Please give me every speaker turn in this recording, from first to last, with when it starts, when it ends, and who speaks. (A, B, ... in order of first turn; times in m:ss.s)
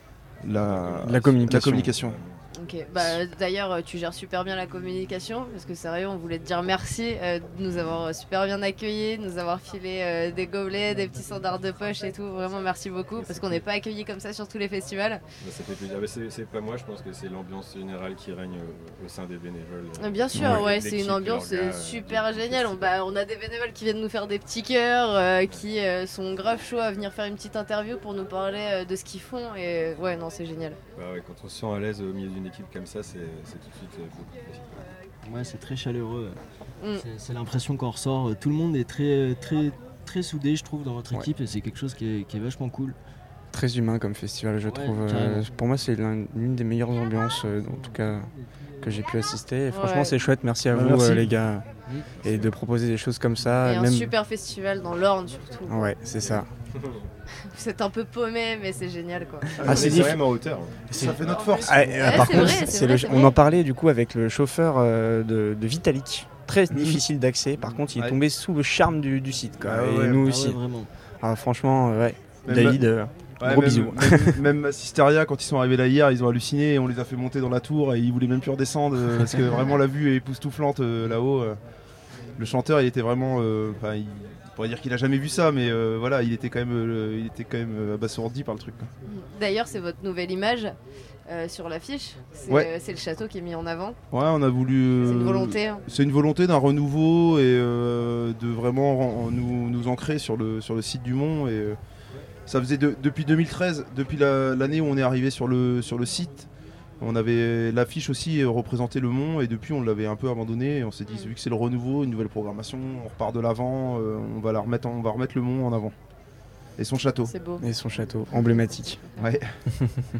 0:00.4-0:02.2 A
0:00.5-0:02.4 B
0:01.0-0:01.9 C
0:02.6-0:15.2 D
0:13.2-0:13.6 B
0:15.4-0:23.0 B
0:20.0-0:30.8 D
0:20.3-0:20.7 C
0:31.0-0:34.9 B
0:35.2-0:36.4 E
0:37.0-0:43.0 E
0:43.5-0:48.3 C
0:44.6-0:45.5 E
0:48.8-0:51.6 C
0:49.7-0:50.1 D
0:50.7-0:51.3 A
0:52.1-0:52.5 B
0:52.2-0:54.1 C
0:53.6-0:55.9 D
0:55.7-0:56.5 C
0:56.2-0:57.1 B
0:57.5-0:59.6 D
0:59.6-1:00.2 A
0:59.6-1:00.2 C
0:59.6-1:01.0 B
1:00.9-1:10.6 C
1:00.9-1:02.6 A
1:01.2-1:03.4 D
1:08.0-1:08.2 A
1:09.6-1:10.2 A
1:10.2-1:10.9 E
1:11.2-1:14.4 C
1:12.5-1:12.8 A
1:13.4-1:21.6 A
1:22.4-1:28.9 A
1:29.0-1:30.8 D
1:31.3-1:34.0 D
1:34.1-1:41.8 A
1:35.0-1:35.8 D
1:42.5-1:46.5 A
1:47.0-1:55.9 A
1:51.1-1:51.3 D
1:56.8-1:57.3 A
1:57.2-1:57.6 D
1:57.6-1:59.0 C
1:58.3-1:59.3 D
1:59.2-1:59.5 A